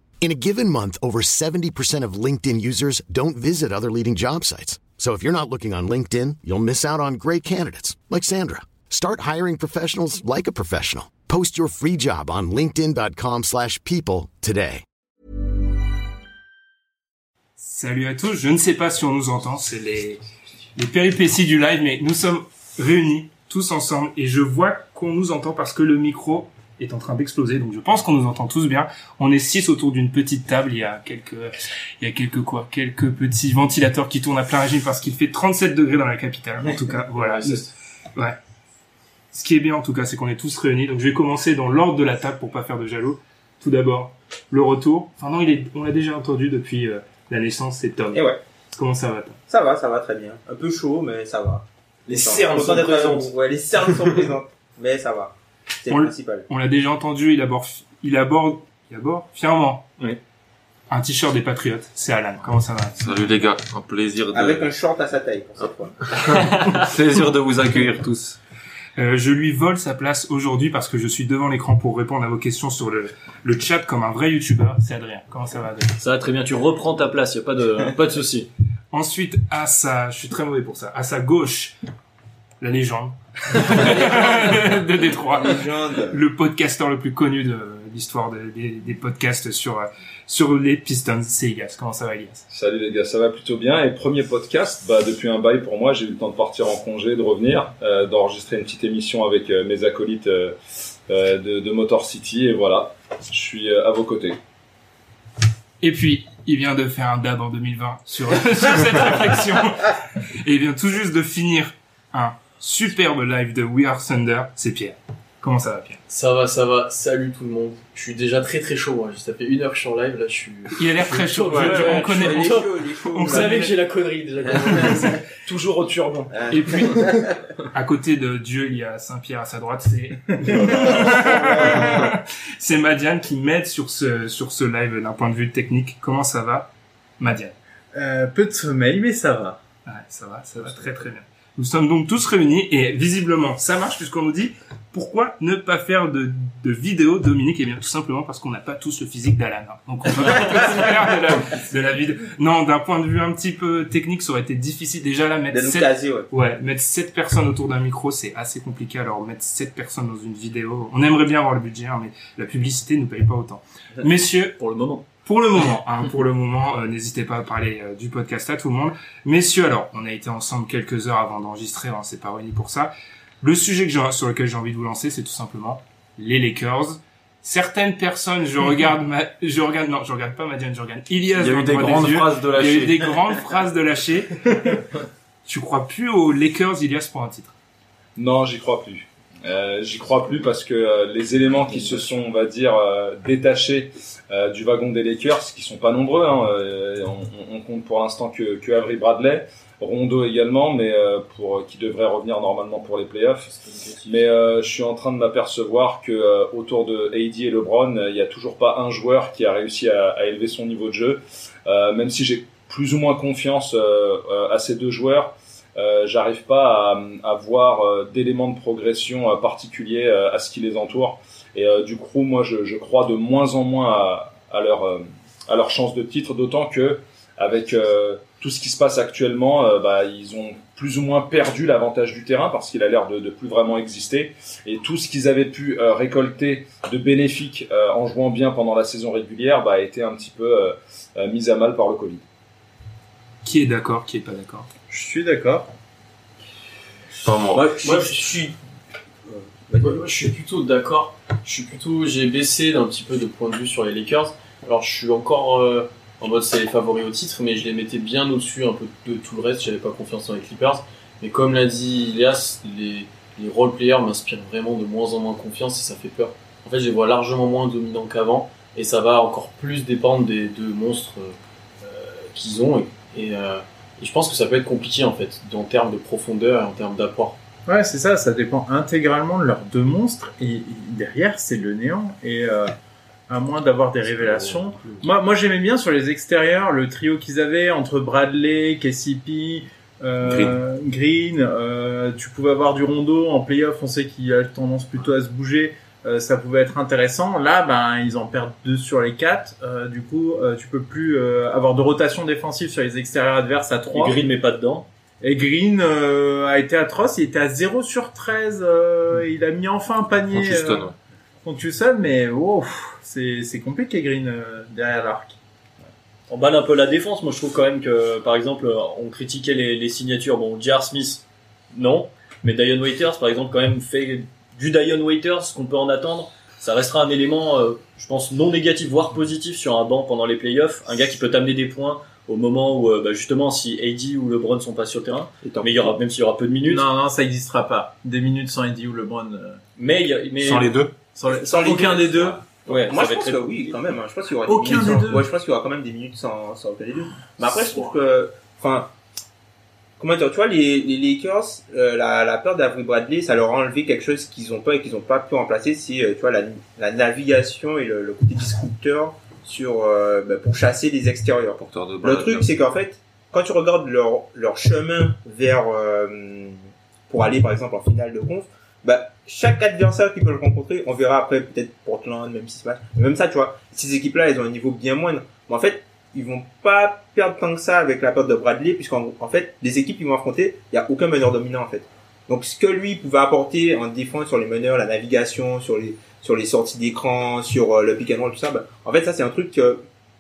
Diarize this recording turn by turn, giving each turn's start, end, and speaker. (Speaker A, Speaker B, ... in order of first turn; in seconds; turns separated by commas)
Speaker A: 0.2-14.8, Speaker B: 17.6-20.2, Speaker B: 20.8-38.4, Speaker C: 37.1-37.7, Speaker B: 39.3-49.4, Speaker D: 48.1-48.4, Speaker D: 49.5-56.5, Speaker E: 52.1-53.3, Speaker E: 53.9-54.2, Speaker B: 55.9-59.9, Speaker B: 60.9-63.1, Speaker E: 63.0-64.7, Speaker D: 64.3-66.0, Speaker E: 66.1-68.4, Speaker B: 69.0-76.0, Speaker F: 76.0-78.5, Speaker B: 78.9-81.7, Speaker B: 82.6-92.4, Speaker D: 83.6-86.2, Speaker G: 92.5-100.6, Speaker G: 101.1-104.4, Speaker B: 105.8-116.0, Speaker C: 116.1-122.4, Speaker B: 120.8-123.7, Speaker F: 121.3-122.7, Speaker D: 122.1-123.7, Speaker F: 123.3-125.0, Speaker C: 123.4-123.7, Speaker C: 124.4-125.1, Speaker B: 124.8-125.1, Speaker G: 125.4-126.3, Speaker D: 126.3-127.4, Speaker B: 126.5-137.6, Speaker D: 130.7-131.6, Speaker H: 137.9-139.6, Speaker B: 139.9-164.6, Speaker D: 155.5-156.3, Speaker F: 164.6-165.1, Speaker B: 165.2-184.8, Speaker E: 181.4-183.1, Speaker B: 185.5-187.5, Speaker G: 188.2-203.5, Speaker C: 203.5-204.3, Speaker G: 204.1-242.2, Speaker B: 243.4-244.7, Speaker H: 244.9-245.7, Speaker E: 247.2-247.8, Speaker D: 247.6-248.5, Speaker C: 247.6-248.5, Speaker D: 249.3-250.0, Speaker C: 249.8-277.4, Speaker H: 277.7-282.8, Speaker H: 283.3-304.2, Speaker C: 284.4-285.0, Speaker E: 290.2-290.6, Speaker F: 303.9-304.9, Speaker H: 305.2-310.9, Speaker E: 310.3-310.9, Speaker H: 311.4-315.4, Speaker F: 316.3-336.9, Speaker D: 335.4-335.9, Speaker H: 336.7-339.6, Speaker F: 339.8-340.8, Speaker E: 340.4-340.9, Speaker H: 341.1-342.5, Speaker D: 341.3-348.9, Speaker F: 342.6-343.8, Speaker H: 344.4-345.3, Speaker C: 347.5-347.8, Speaker D: 350.0-366.6, Speaker E: 361.6-362.5, Speaker D: 367.1-389.8